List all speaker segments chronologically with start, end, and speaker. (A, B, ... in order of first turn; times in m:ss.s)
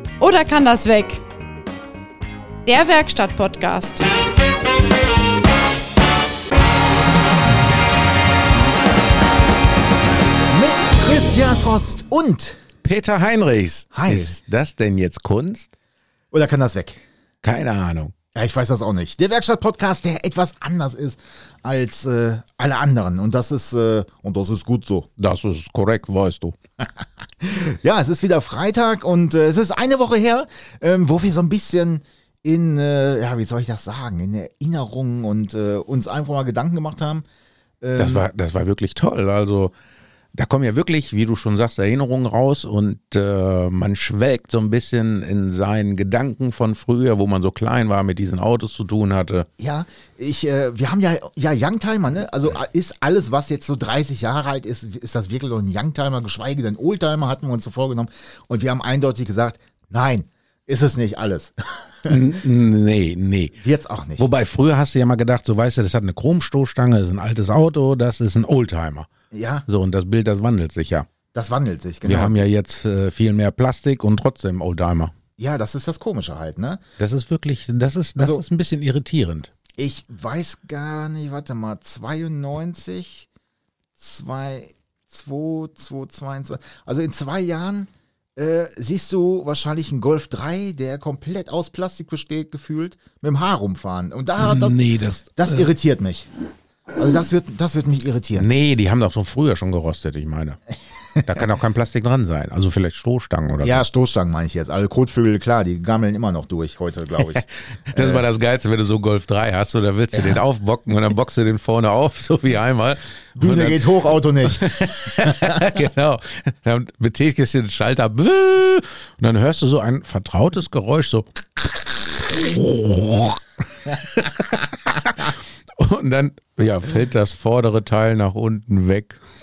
0:00.2-0:01.2 A
0:02.6-0:04.0 A
0:10.5-0:12.6 B
0:12.8-0:15.7 C
0:13.9-0:14.3 B
0:16.3-0:17.0 B
0:17.4-0:18.1 C
0:18.3-0:25.1 B
0:25.2-0:26.6 C
0:27.4-0:37.2 B
0:37.8-0:38.3 B
0:38.0-0:39.7 C
0:40.3-0:49.5 C
0:49.6-1:02.4 B
1:02.1-1:03.6 C
1:03.6-1:04.3 B
1:04.2-1:09.1 C
1:09.3-1:09.6 B
1:09.7-1:11.1 C
1:11.3-1:12.4 B
1:12.0-1:15.1 C
1:15.4-1:16.8 B
1:17.0-1:19.5 C
1:18.2-1:18.4 B
1:19.8-1:23.3 B
1:24.0-1:34.8 B
1:34.4-1:35.7 C
1:35.4-1:36.3 B
1:36.9-1:38.5 B
1:38.3-1:40.6 C
1:41.2-1:43.8 C
1:43.6-1:48.2 B
1:47.4-1:53.8 C
1:50.1-1:50.4 B
1:53.4-1:55.8 B
1:54.4-2:09.2 C